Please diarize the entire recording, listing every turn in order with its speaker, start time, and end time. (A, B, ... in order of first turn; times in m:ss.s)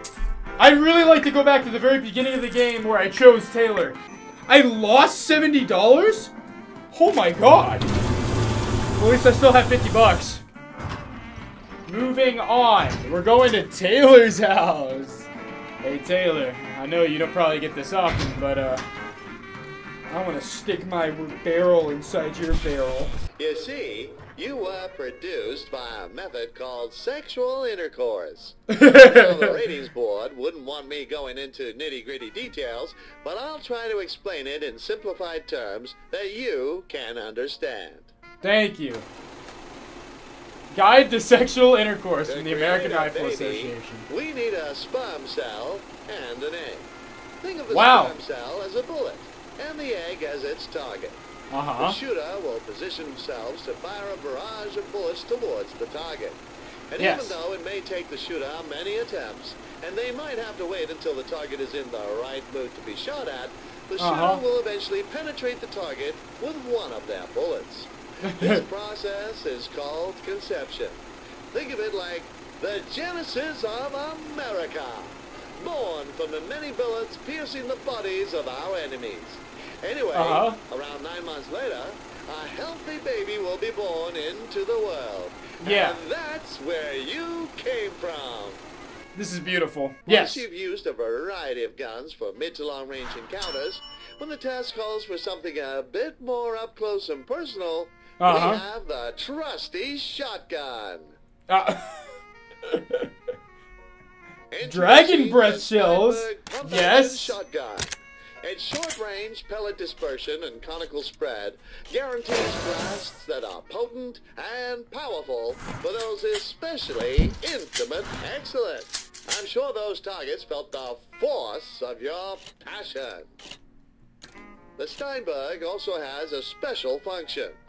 0:00.6-0:06.3 A
0:06.9-0:07.9 A
0:09.0-0:10.4 A
0:11.9-0:15.3 A
0:15.8-0:18.8 A
0:20.1-0:23.1 A
0:23.4-0:38.1 B
0:28.7-0:29.6 A
0:38.4-0:39.1 A
0:40.7-0:44.1 A
0:42.2-0:46.9 B
0:47.4-0:51.2 B
0:47.7-0:48.1 A
0:51.5-0:52.0 A
0:51.8-1:28.6 B
0:57.0-0:57.4 A
1:04.0-1:04.4 A
1:08.2-1:08.6 A
1:20.1-1:20.6 A
1:25.6-1:26.0 A
1:29.1-1:30.4 A
1:30.1-1:41.2 B
1:38.2-1:38.6 A
1:41.5-1:41.9 A
1:42.7-1:43.1 A
1:44.5-2:03.3 B
1:44.6-1:47.4 A
2:04.8-2:07.6 B